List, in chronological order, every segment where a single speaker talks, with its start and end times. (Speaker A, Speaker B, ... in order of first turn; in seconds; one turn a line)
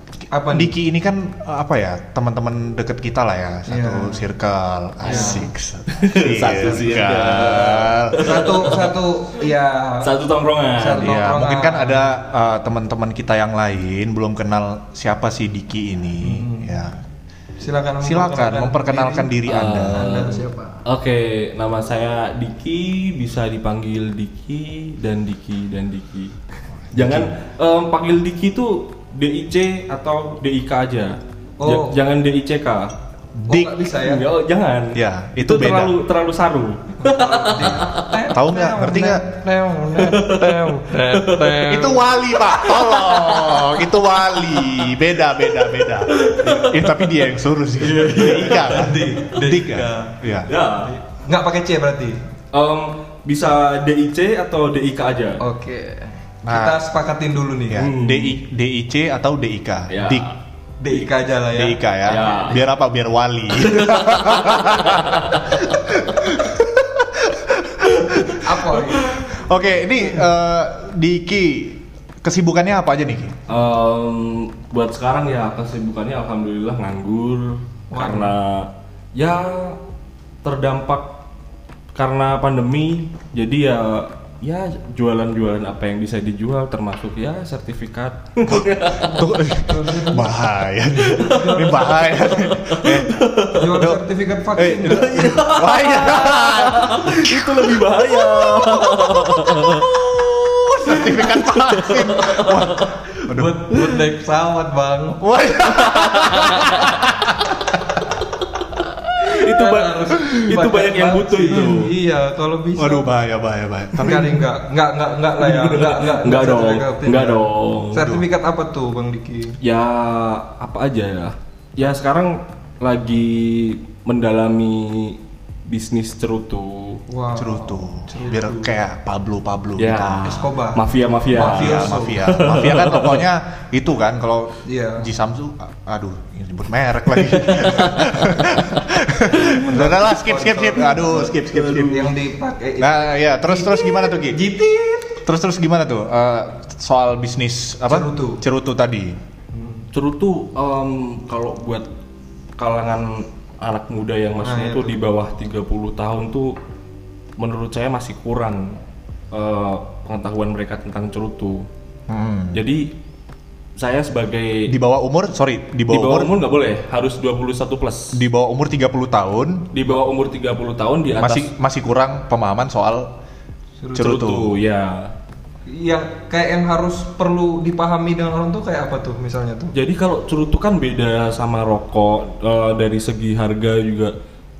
Speaker A: 0.3-0.7
Speaker B: 0.5-8.4
Speaker A: 3.7-4.3
Speaker A: 5.0-5.5
Speaker C: 5.0-8.9
Speaker A: 8.2-10.2
Speaker C: 10.0-11.1
Speaker A: 10.8-12.1
Speaker B: 11.0-17.0
Speaker A: 16.2-16.8
Speaker A: 17.6-19.3
Speaker B: 18.0-20.2
Speaker C: 19.4-26.4
Speaker A: 19.9-20.8
Speaker B: 26.9-27.3
Speaker C: 26.9-32.9
Speaker A: 31.6-32.0
Speaker B: 33.3-33.7
Speaker A: 33.5-34.2
Speaker C: 34.0-38.1
Speaker B: 34.9-36.0
Speaker A: 37.0-42.1
Speaker B: 38.3-39.2
Speaker C: 40.0-41.6
Speaker B: 41.6-50.5
Speaker C: 42.6-44.8
Speaker C: 45.8-47.0
Speaker A: 47.8-50.1
Speaker C: 48.0-48.9
Speaker C: 50.5-50.9
Speaker A: 50.9-52.2
Speaker C: 52.5-55.4
Speaker A: 55.4-57.9
Speaker B: 56.4-56.8
Speaker B: 57.7-60.3
Speaker C: 57.8-58.4
Speaker C: 59.9-60.3
Speaker A: 60.8-62.6
Speaker B: 61.5-68.5
Speaker C: 62.1-62.6
Speaker C: 63.6-65.6
Speaker A: 68.2-69.2
Speaker B: 69.1-73.4
Speaker C: 73.5-79.8
Speaker A: 77.9-78.3
Speaker C: 80.4-81.1
Speaker C: 81.9-89.2
Speaker B: 88.5-94.0
Speaker A: 89.0-90.4
Speaker C: 91.2-91.7
Speaker A: 91.2-92.4
Speaker C: 92.5-93.6
Speaker A: 93.5-95.3
Speaker B: 94.5-103.7
Speaker C: 94.9-99.9
Speaker C: 100.9-102.9
Speaker A: 103.3-105.2
Speaker B: 105.2-107.4
Speaker C: 105.7-106.7
Speaker C: 109.2-111.9
Speaker A: 109.2-113.1
Speaker B: 112.8-114.5
Speaker A: 114.0-119.6
Speaker C: 115.4-118.1
Speaker B: 118.0-118.2
Speaker C: 119.6-127.0
Speaker A: 127.1-128.7
Speaker B: 127.3-130.3
Speaker C: 129.8-133.2
Speaker A: 130.2-132.2
Speaker B: 131.3-142.1
Speaker A: 134.7-135.1
Speaker C: 137.2-137.8
Speaker A: 139.3-145.2
Speaker C: 141.0-142.0
Speaker B: 142.8-144.4
Speaker B: 145.2-149.2
Speaker A: 147.9-148.4
Speaker A: 149.5-149.9
Speaker C: 149.9-151.8
Speaker C: 152.6-156.6
Speaker A: 154.4-155.0
Speaker C: 157.4-158.8
Speaker C: 159.3-161.7
Speaker B: 162.1-162.6
Speaker C: 162.5-162.9
Speaker C: 163.8-164.8
Speaker B: 164.7-166.3
Speaker C: 165.9-168.2
Speaker B: 168.1-169.7
Speaker C: 169.7-171.5
Speaker B: 171.2-173.1
Speaker A: 173.8-174.1
Speaker B: 173.9-174.6
Speaker C: 174.0-175.1
Speaker A: 175.7-179.7
Speaker C: 179.7-184.1